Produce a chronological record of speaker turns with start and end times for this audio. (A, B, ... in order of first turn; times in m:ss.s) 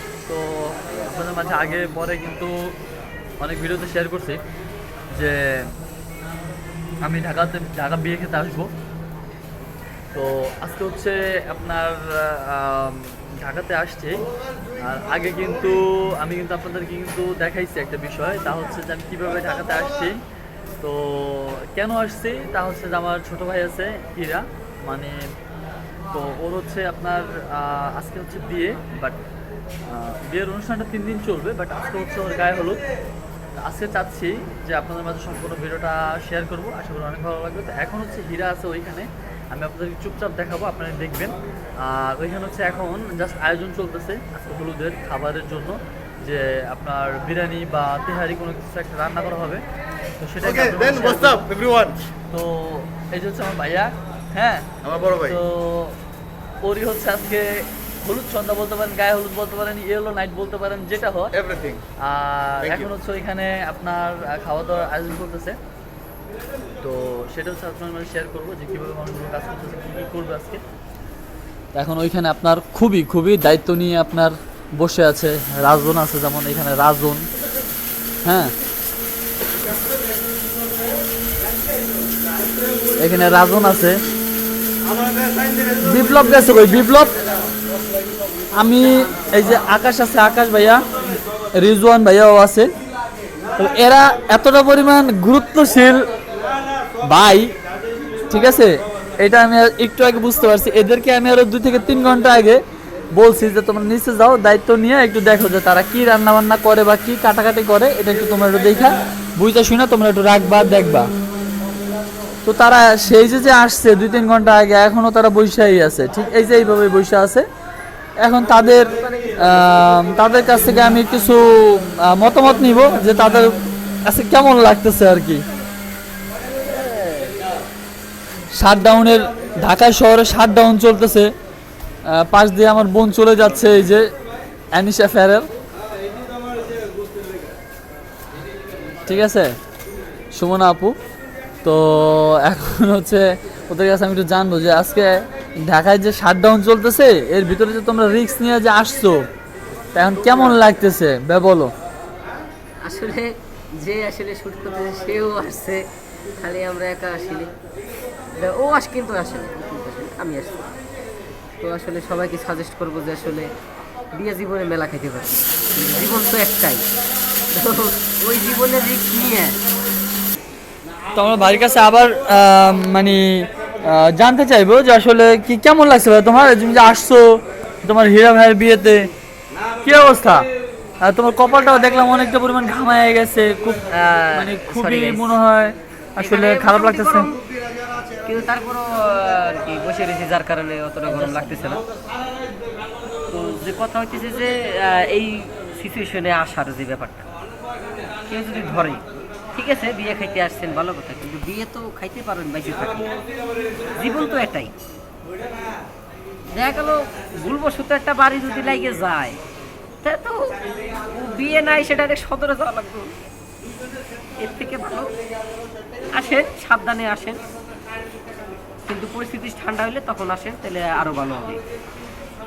0:00.2-0:02.7 A
0:03.4-0:04.4 A
0:05.1-0:05.8 A
0:07.0-0:08.7 A
0:10.1-0:14.2 A
0:14.8-0:20.2 A
0:20.8-0:25.2 A
0:26.1-0:29.2 A
0:29.9-0:32.8 A
0:33.6-0:49.6 A
0:50.2-0:51.5 A
0:50.6-0:52.0 B
0:52.3-0:56.0 A
0:54.8-0:55.4 B
0:56.6-1:01.3 A
1:01.4-1:01.8 B
1:02.0-1:05.6 A
1:06.8-1:10.6 A
1:11.7-1:17.3 A
1:18.2-1:18.5 A
1:23.0-1:24.0 A
1:25.8-1:27.2 A
1:28.6-1:30.9 A
1:31.6-1:32.7 A
1:33.5-1:36.0 A
1:37.0-1:37.5 A
1:38.3-1:42.6 A
1:43.1-1:51.1 A
1:52.4-1:57.4 A
1:58.2-2:05.4 A
2:07.0-2:07.3 C
2:08.5-2:11.3 A
2:12.0-2:14.1 A
2:14.7-2:15.5 A
2:19.0-2:19.5 A
2:20.3-2:20.9 A
2:21.6-2:29.3 A
2:29.9-2:31.7 A
2:30.3-2:30.6 C
2:32.8-2:33.3 C
2:33.8-2:35.8 C
2:36.4-2:37.5 C
2:38.4-2:40.6 C
2:41.6-2:43.5 C
2:44.1-2:46.8 C
2:47.5-2:49.6 C
2:51.1-2:59.1 A
2:59.8-3:00.4 A
3:01.0-3:07.3 A
3:03.9-3:05.3 C
3:06.2-3:07.4 C
3:08.2-3:11.8 C
3:13.3-3:17.3 C
3:18.3-3:19.0 C
3:19.5-3:23.1 C
3:23.9-3:24.7 C
3:26.5-3:29.4 C
3:30.0-3:33.1 C
3:34.4-3:35.1 C
3:36.1-3:37.4 C
3:38.8-3:41.6 C